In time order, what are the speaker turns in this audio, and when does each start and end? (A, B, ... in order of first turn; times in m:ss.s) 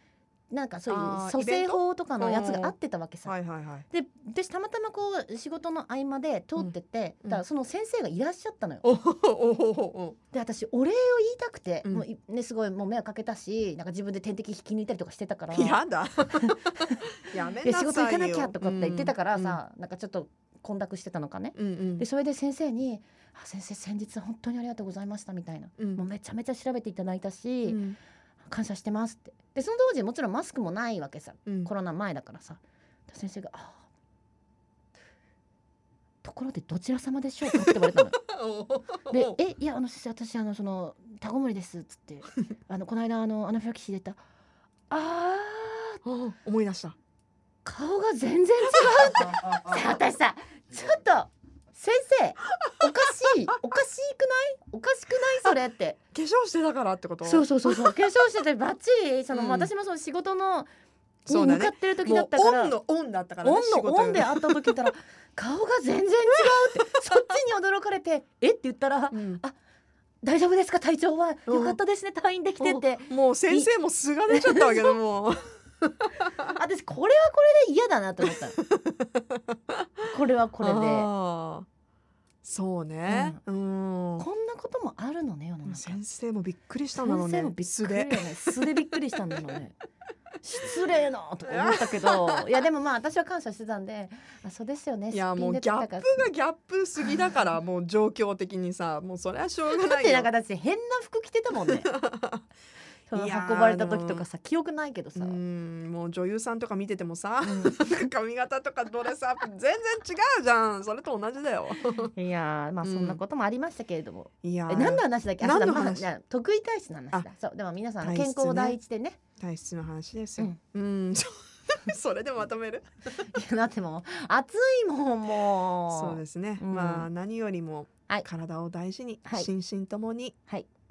0:00.5-0:03.3 A
0:00.9-0:03.9 B
0:03.9-0:08.9 A
0:08.8-0:10.2 B
0:10.3-0:15.8 A
0:15.5-0:19.6 B
0:17.6-0:27.8 A
0:21.6-0:22.1 B
0:27.7-0:28.0 B
0:28.5-0:33.9 A
0:31.5-0:31.7 B
0:36.2-0:38.2 A
0:37.5-0:39.4 B
0:39.1-0:44.2 A
0:44.9-0:46.0 A
0:46.0-0:47.0 B
0:47.6-0:56.0 A
0:48.8-0:49.6 B
0:52.7-0:53.6 B
0:56.1-0:58.1 B
0:57.2-1:00.7 A
0:59.3-0:59.7 B
1:01.3-1:04.9 B
1:01.3-1:02.8 A
1:03.4-1:09.6 A
1:06.4-1:07.4 B
1:09.1-1:09.4 B
1:10.2-1:13.7 A
1:11.5-1:11.8 B
1:12.6-1:16.3 B
1:14.3-1:14.9 A
1:16.5-1:18.6 A
1:18.6-1:19.4 B
1:20.1-1:21.1 A
1:20.6-1:21.7 B
1:22.4-1:24.3 B
1:23.1-1:23.4 A
1:24.2-1:26.0 A
1:25.7-1:28.8 B
1:27.0-1:29.8 A
1:30.4-1:36.2 A
1:31.5-1:32.4 B
1:35.1-1:40.3 B
1:37.0-1:37.4 A
1:39.7-1:41.9 A
1:41.7-1:42.4 B
1:43.1-1:45.4 A
1:43.1-1:44.3 B
1:45.2-1:52.1 B
1:47.5-1:48.1 A
1:52.2-1:59.2 A
1:52.8-1:53.2 B
1:54.4-1:56.1 B
1:58.0-1:58.8 B
1:59.4-2:03.2 B
2:03.2-2:07.1 A
2:05.9-2:10.4 B